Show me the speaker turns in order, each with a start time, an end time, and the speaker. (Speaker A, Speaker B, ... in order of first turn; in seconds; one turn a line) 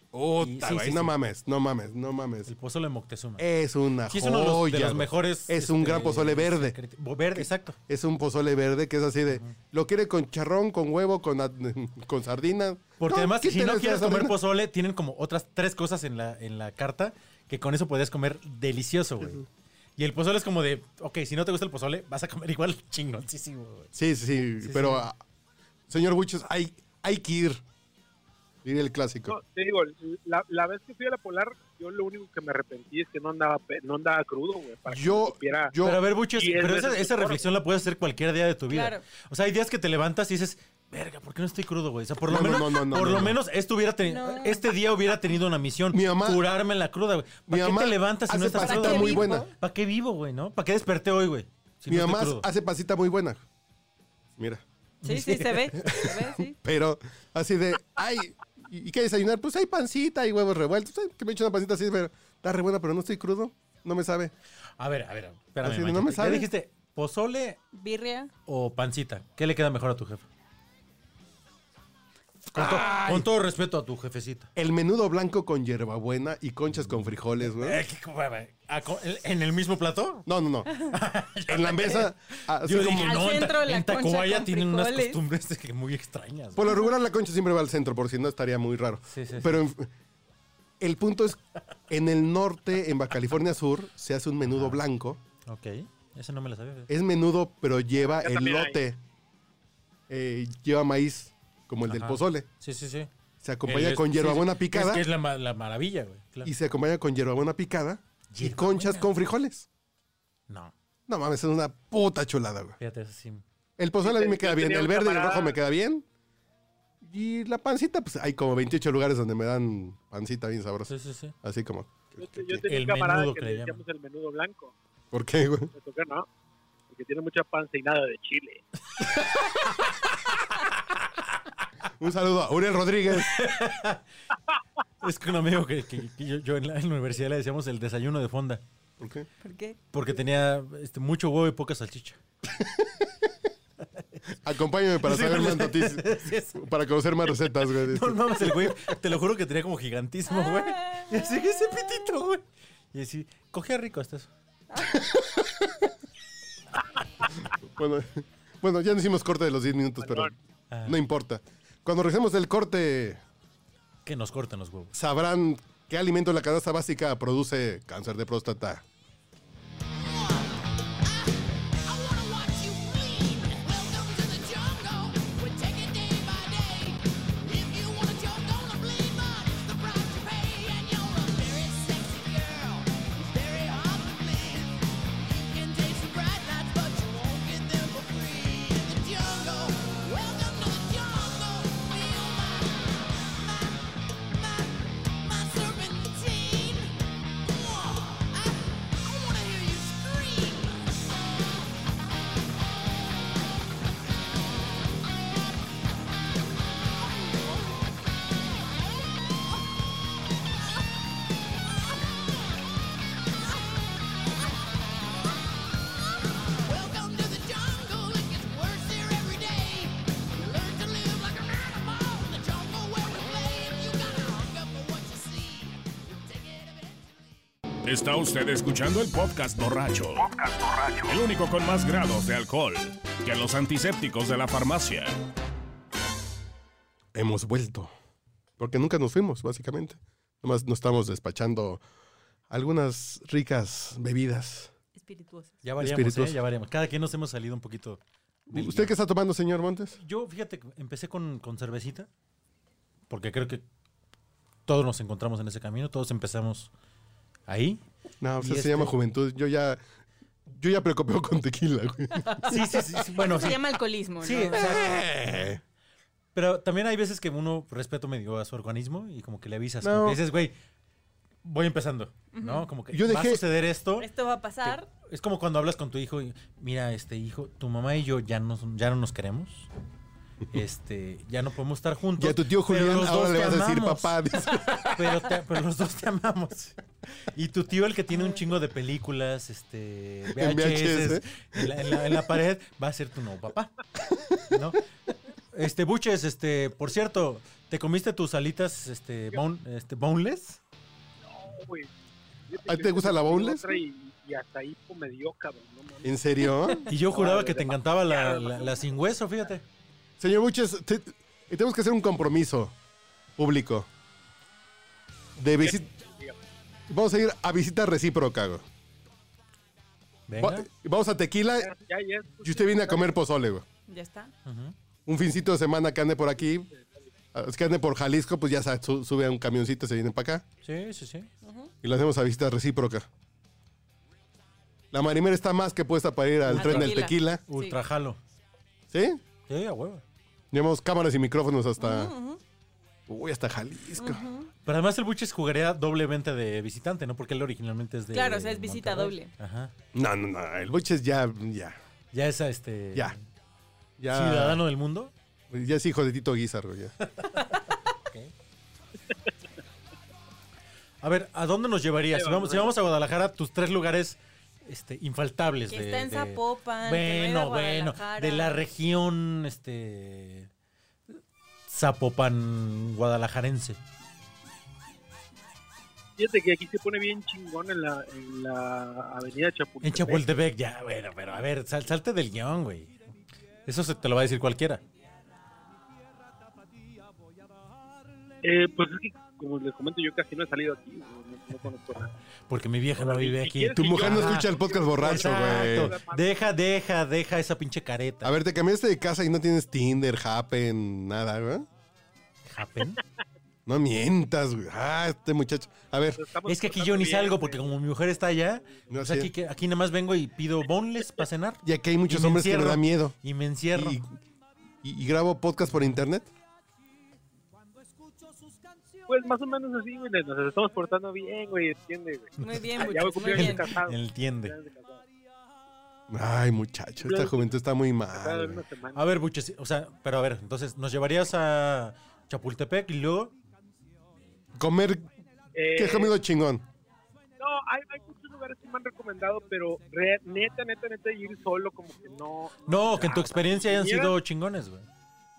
Speaker A: 0.1-2.5
Speaker B: 0.4-1.1
Speaker B: 2.5-3.5
Speaker A: 3.4-6.8
Speaker B: 4.1-7.8
Speaker A: 7.3-14.3
Speaker B: 13.0-19.4
Speaker B: 20.0-23.9
Speaker A: 23.9-25.2
Speaker B: 24.6-25.0
Speaker A: 25.9-27.6
Speaker A: 28.6-29.4
Speaker C: 29.3-35.7
Speaker A: 34.9-36.0
Speaker B: 35.8-52.5
Speaker C: 36.3-37.5
Speaker D: 38.7-39.0
Speaker A: 42.2-43.4
Speaker D: 44.0-44.7
Speaker A: 45.9-46.4
Speaker A: 47.5-49.5
Speaker D: 48.5-49.5
Speaker A: 51.9-53.4
Speaker A: 54.4-54.6
Speaker B: 55.0-55.8
Speaker D: 55.0-56.5
Speaker A: 55.8-64.3
Speaker B: 64.8-67.6
Speaker A: 65.6-66.5
Speaker D: 67.7-68.3
Speaker B: 68.5-70.2
Speaker A: 72.5-73.3
Speaker B: 72.5-74.5
Speaker A: 74.5-77.8
Speaker B: 77.4-86.7
Speaker A: 80.2-80.7
Speaker A: 81.5-83.3
Speaker D: 82.9-85.2
Speaker A: 86.5-89.9
Speaker B: 89.1-89.6
Speaker A: 90.8-95.2
Speaker B: 94.5-94.8
Speaker B: 95.5-96.9
Speaker A: 96.9-99.0
Speaker C: 98.0-98.8
Speaker A: 100.1-102.5
Speaker B: 101.9-103.1
Speaker A: 103.4-105.0
Speaker B: 103.6-106.5
Speaker A: 106.4-109.7
Speaker B: 108.3-109.1
Speaker A: 111.1-112.8
Speaker B: 112.8-113.4
Speaker A: 113.8-116.0
Speaker C: 114.0-115.6
Speaker A: 117.0-122.4
Speaker B: 120.9-121.3
Speaker C: 122.2-124.7
Speaker B: 122.6-123.8
Speaker A: 125.1-125.7
Speaker C: 125.7-126.3
Speaker C: 126.9-128.6
Speaker A: 132.0-133.3
Speaker B: 133.1-134.0
Speaker B: 135.0-138.6
Speaker A: 139.0-139.3
Speaker D: 139.4-139.8
Speaker B: 139.9-142.2
Speaker A: 142.5-143.3
Speaker A: 144.4-148.9
Speaker B: 145.0-146.6
Speaker B: 147.7-154.3
Speaker D: 150.3-152.0
Speaker D: 154.7-155.1
Speaker A: 155.4-155.8
Speaker A: 157.7-160.3
Speaker C: 160.0-160.3
Speaker B: 160.7-161.0
Speaker A: 160.8-163.2
Speaker B: 164.0-164.9
Speaker A: 164.9-168.8
Speaker E: 171.8-184.7
Speaker E: 185.3-192.9
Speaker E: 195.2-197.0
Speaker E: 197.5-200.8
Speaker E: 216.7-226.9
Speaker F: 227.8-235.1
Speaker A: 237.1-237.9
Speaker A: 238.6-241.8
Speaker A: 242.5-244.7
Speaker D: 244.9-245.6
Speaker B: 245.6-248.9
Speaker A: 245.8-246.4
Speaker A: 248.5-250.0
Speaker B: 250.0-252.1
Speaker B: 253.1-253.6
Speaker B: 254.7-256.7
Speaker B: 257.5-257.8
Speaker A: 258.2-259.8
Speaker B: 258.4-258.9
Speaker A: 260.5-262.8
Speaker D: 262.1-262.6
Speaker B: 262.4-265.4
Speaker D: 263.1-264.8
Speaker A: 264.5-265.6
Speaker B: 266.3-270.5
Speaker A: 269.8-270.2
Speaker B: 271.4-274.1
Speaker D: 272.3-272.7
Speaker A: 272.9-273.4
Speaker D: 274.0-274.9
Speaker B: 274.6-279.7
Speaker B: 280.5-293.7
Speaker A: 282.2-285.1
Speaker A: 290.3-292.3
Speaker A: 294.0-294.6
Speaker B: 294.5-294.8
Speaker B: 295.5-300.6
Speaker C: 301.2-301.9
Speaker C: 302.5-306.1
Speaker A: 302.6-303.8
Speaker A: 306.0-306.9
Speaker B: 306.9-309.6
Speaker C: 307.1-308.8
Speaker A: 310.2-312.7
Speaker A: 313.4-313.9
Speaker A: 315.4-315.9
Speaker C: 315.6-316.4
Speaker A: 316.9-318.6
Speaker B: 320.3-320.6
Speaker A: 320.4-321.7
Speaker C: 321.6-323.1
Speaker A: 322.4-323.6
Speaker D: 323.9-324.3
Speaker B: 324.4-324.7
Speaker A: 325.1-326.7
Speaker C: 326.7-327.0
Speaker A: 327.3-330.4
Speaker B: 330.6-331.3
Speaker D: 331.4-331.7
Speaker A: 331.8-333.1
Speaker A: 334.9-337.4
Speaker B: 336.5-338.2
Speaker D: 336.5-337.8
Speaker A: 338.9-339.2
Speaker B: 339.5-340.0
Speaker A: 340.5-342.1
Speaker D: 341.8-342.4
Speaker A: 343.1-344.2
Speaker D: 344.0-344.5
Speaker B: 344.6-349.7
Speaker D: 348.1-349.3
Speaker A: 349.9-351.8
Speaker B: 352.1-353.2
Speaker A: 354.0-354.6
Speaker B: 354.1-355.1
Speaker A: 355.5-356.9
Speaker B: 357.2-358.3
Speaker D: 357.4-357.8
Speaker B: 361.0-370.5
Speaker C: 362.1-362.7
Speaker D: 365.7-368.6
Speaker B: 371.7-373.8
Speaker C: 376.2-380.2
Speaker B: 379.8-383.0
Speaker B: 383.6-384.8
Speaker C: 388.4-392.1
Speaker B: 392.5-398.3
Speaker C: 392.9-396.4
Speaker A: 393.8-395.9
Speaker A: 398.2-401.6
Speaker B: 402.5-403.0
Speaker A: 403.6-406.2
Speaker C: 406.2-407.8
Speaker B: 406.4-414.0
Speaker A: 408.9-409.3
Speaker A: 411.6-413.1
Speaker A: 413.7-414.1
Speaker A: 414.8-416.3
Speaker C: 419.1-425.0
Speaker D: 422.4-423.7
Speaker B: 422.4-424.5
Speaker A: 426.1-428.6
Speaker C: 427.0-427.5
Speaker C: 428.1-429.1
Speaker B: 428.9-433.3
Speaker A: 434.6-435.1
Speaker C: 435.5-436.1
Speaker A: 435.7-436.6
Speaker C: 437.4-444.1
Speaker B: 442.7-444.9